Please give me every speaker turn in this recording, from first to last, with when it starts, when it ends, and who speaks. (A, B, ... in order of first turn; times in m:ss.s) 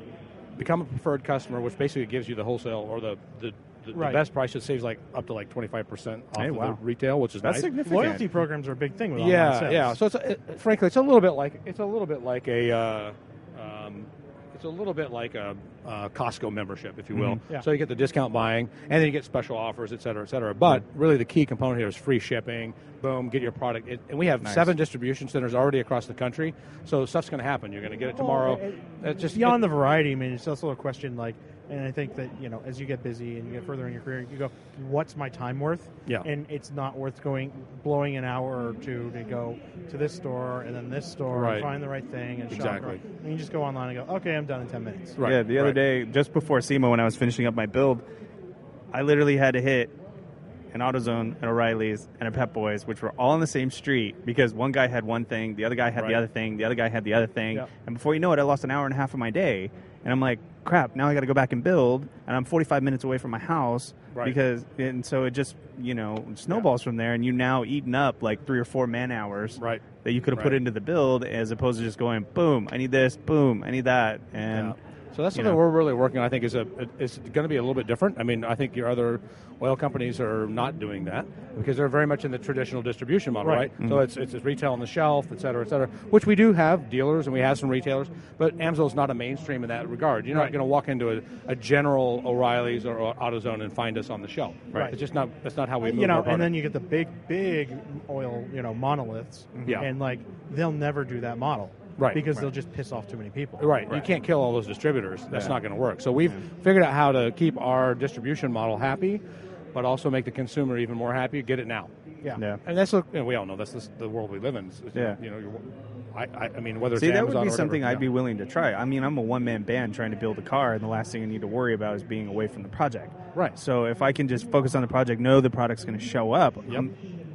0:00.6-0:08.2 A
0:03.9-0:04.2 B
0:06.4-0:06.8 C
0:07.4-0:08.2 C
0:07.8-0:10.0 B
0:09.2-0:29.7 A
0:17.1-0:17.4 C
0:24.4-0:24.7 C
0:28.2-0:45.2 B
0:41.3-0:41.7 A
0:42.5-0:43.0 A
0:45.2-0:45.8 A
0:45.2-0:48.0 C
0:48.9-0:49.9 C
0:50.7-1:14.8 C
0:56.0-0:56.2 A
1:14.5-1:36.6 A
1:15.3-1:15.6 C
1:23.4-1:23.7 B
1:35.8-1:43.9 B
1:39.6-1:39.9 C
1:42.0-1:42.2 A
1:43.6-1:49.2 A
1:45.3-1:45.6 C
1:49.7-1:51.9 A
1:52.6-1:55.6 A
1:56.1-1:58.0 A
1:57.0-2:06.9 C